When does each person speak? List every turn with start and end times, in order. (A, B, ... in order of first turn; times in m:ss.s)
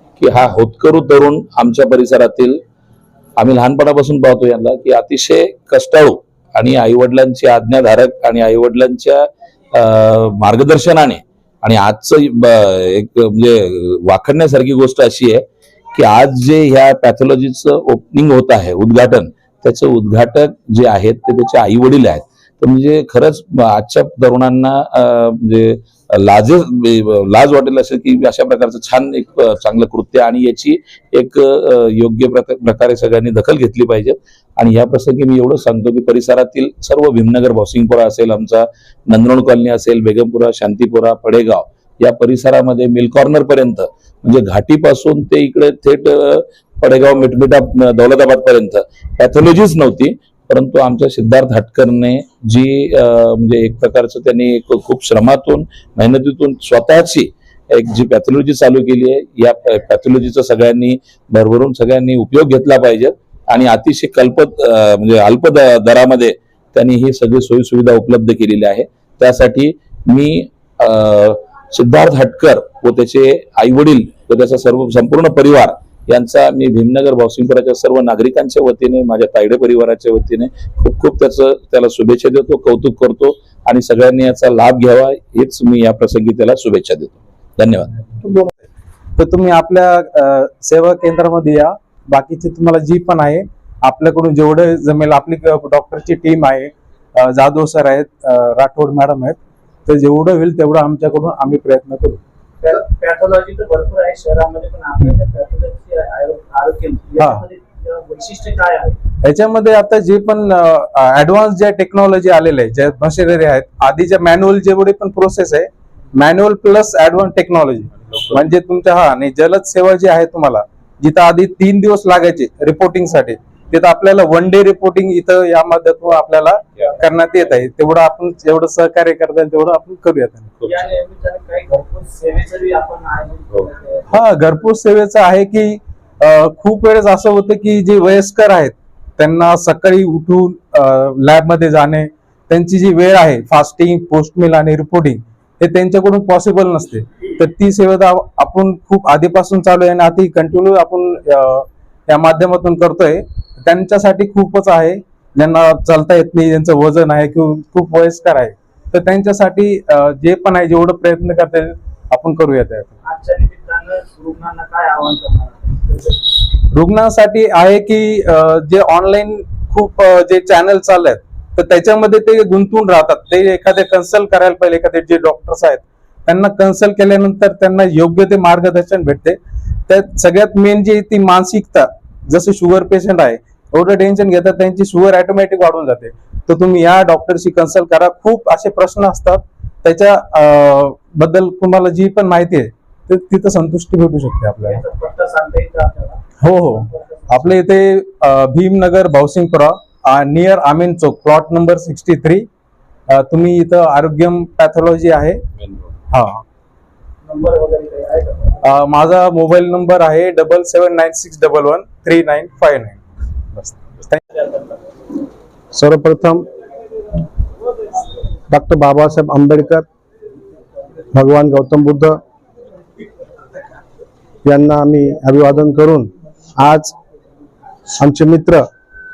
0:00.2-0:02.6 A
0:03.4-1:28.0 A
1:28.1-1:28.6 B
1:29.2-1:42.2 B
1:42.6-1:49.0 C
1:47.2-1:47.4 B
1:49.2-2:10.6 B
2:10.6-2:14.0 C
2:14.1-2:43.0 B
2:43.0-2:46.4 C
2:46.7-3:14.8 B
3:14.6-3:16.2 C
3:16.4-3:22.5 B
3:16.8-3:17.5 C
3:23.1-3:25.4 B
3:26.1-3:26.4 B
3:27.2-3:28.8 C
3:28.6-3:33.0 B
3:33.5-3:34.4 B
3:35.7-3:36.4 D
3:38.5-3:39.9 D
3:41.1-3:42.2 D
3:44.5-3:46.9 D
3:48.0-3:48.6 D